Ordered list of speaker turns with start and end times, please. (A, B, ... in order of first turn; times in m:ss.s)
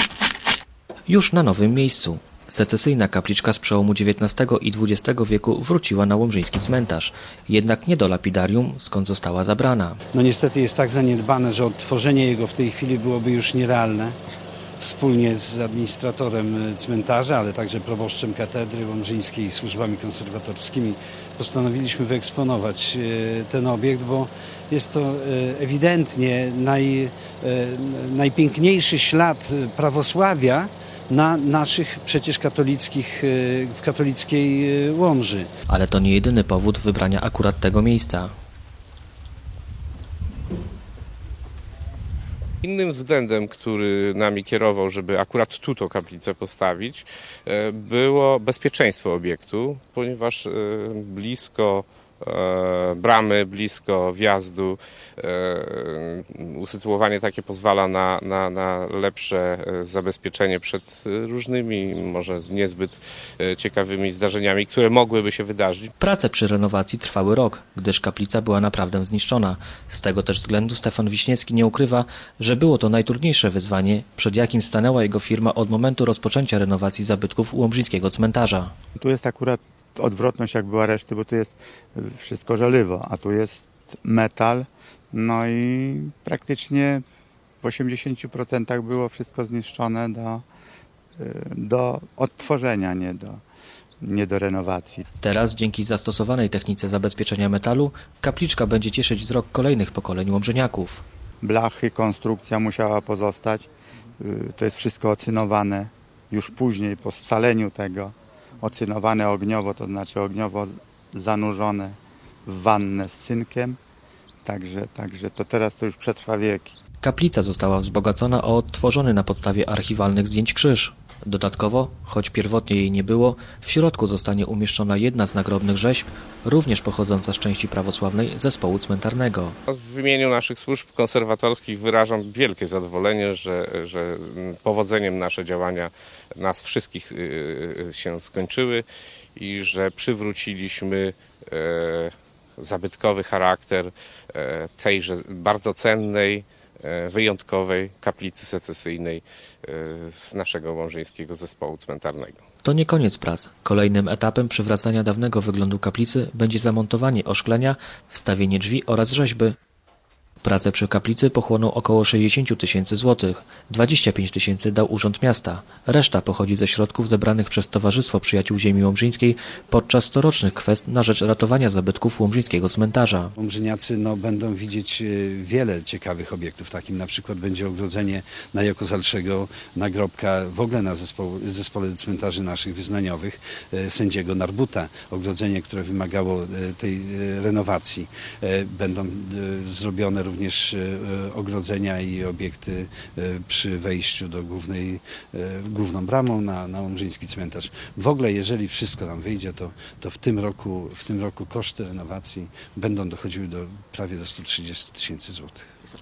0:01.1-0:10.0 A
0:10.1-0:14.2 B
0:14.8-0:35.5 B
0:35.7-0:38.3 A
0:42.6-1:05.9 C
1:06.0-1:18.7 A
1:19.0-1:27.0 D
1:27.6-1:30.5 D
1:31.2-1:33.4 D
1:34.0-1:35.0 D
1:35.2-1:41.0 A
1:41.4-1:53.8 D
1:54.4-1:56.8 D
1:57.0-2:09.6 A
2:09.7-2:32.4 C
2:32.6-2:39.6 A
2:40.4-2:53.3 A
2:53.4-3:25.7 B